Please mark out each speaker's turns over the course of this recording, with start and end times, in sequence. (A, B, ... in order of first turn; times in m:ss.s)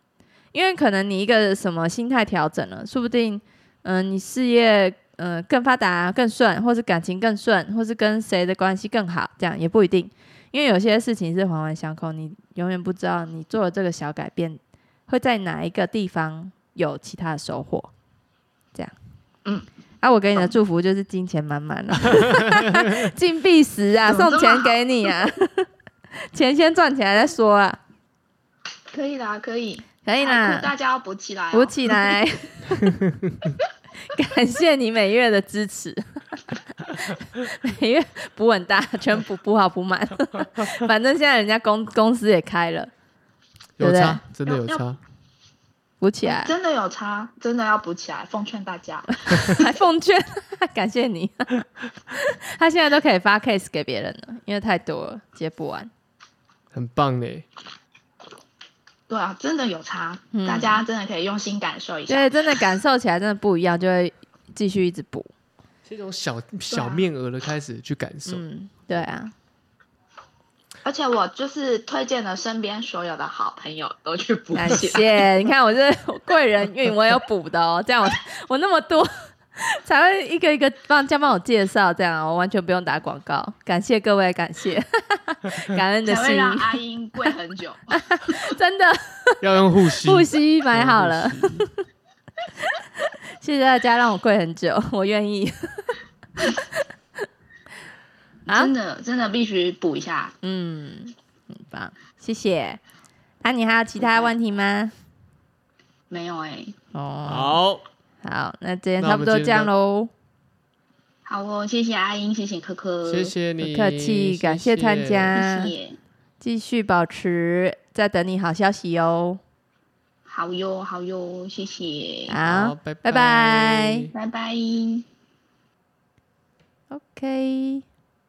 0:00.5-0:17.9 A
0:20.0-0:25.7 A
0:24.0-0:25.1 B
0:26.3-0:27.8 A
0:28.9-0:32.2 B
0:30.0-0:30.7 A
0:31.5-0:32.9 A
0:33.1-0:33.4 C
0:34.2-0:36.5 A
0:37.1-0:42.9 A
0:43.8-0:45.0 C
0:43.8-0:44.2 A
0:44.5-0:44.9 B
0:46.0-0:46.5 A
0:46.2-0:49.8 B
0:49.2-0:55.9 A
0:56.7-0:57.5 C
0:59.1-1:02.3 B
1:00.3-1:00.8 A
1:02.1-1:05.3 A
1:05.9-1:08.4 C
1:06.7-1:07.1 B
1:08.3-1:09.3 A
1:10.8-1:15.2 B
1:14.6-1:27.3 A
1:26.0-1:28.5 B
1:27.9-1:29.4 A
1:29.4-1:31.7 C
1:30.0-1:31.7 A
1:32.7-1:36.0 A
1:36.5-1:36.8 A
1:38.5-1:40.4 B
1:40.4-1:42.8 A
1:43.4-1:44.9 A
1:46.1-1:46.8 B
1:46.9-1:47.6 A
1:47.3-1:47.8 C
1:48.2-1:50.1 A
1:49.0-1:49.7 C
1:51.2-1:53.3 B
1:53.1-1:55.4 C
1:53.6-1:55.7 A
1:55.3-1:56.0 B
1:56.4-1:59.4 A
2:00.3-2:02.4 B
2:02.3-2:04.1 A
2:02.4-2:04.1 C
2:04.1-2:05.1 B
2:06.9-2:07.8 A